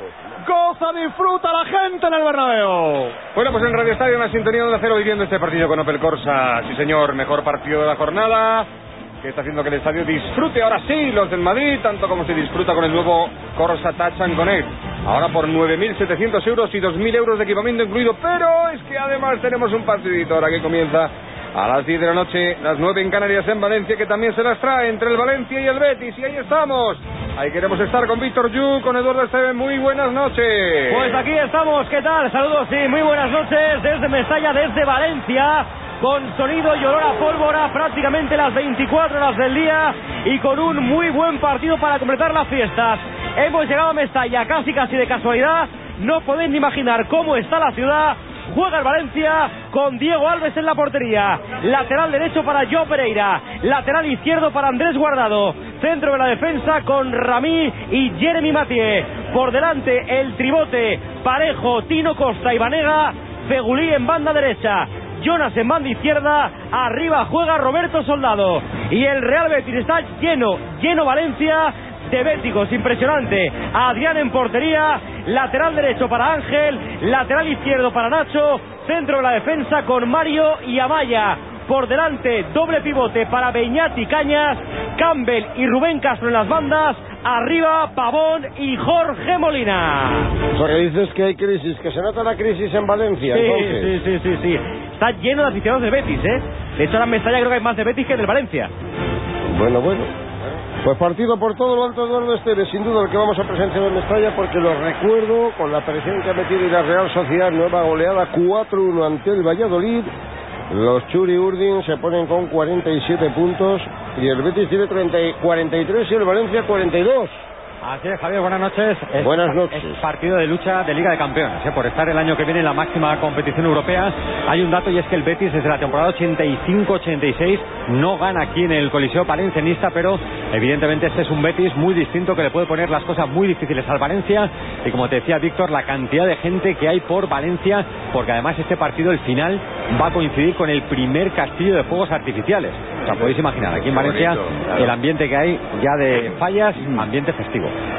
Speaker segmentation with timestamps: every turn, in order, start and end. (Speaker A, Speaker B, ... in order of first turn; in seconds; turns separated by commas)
Speaker A: 0.4-3.2, Speaker B: 3.3-8.7, Speaker B: 9.2-31.2, Speaker C: 30.9-90.3, Speaker D: 90.5-93.9, Speaker C: 93.3-98.7, Speaker D: 99.5-100.1, Speaker D: 100.8-110.1, Speaker D: 110.7-117.5, Speaker E: 117.8-147.7, Speaker D: 119.2-120.0, Speaker B: 143.1-144.6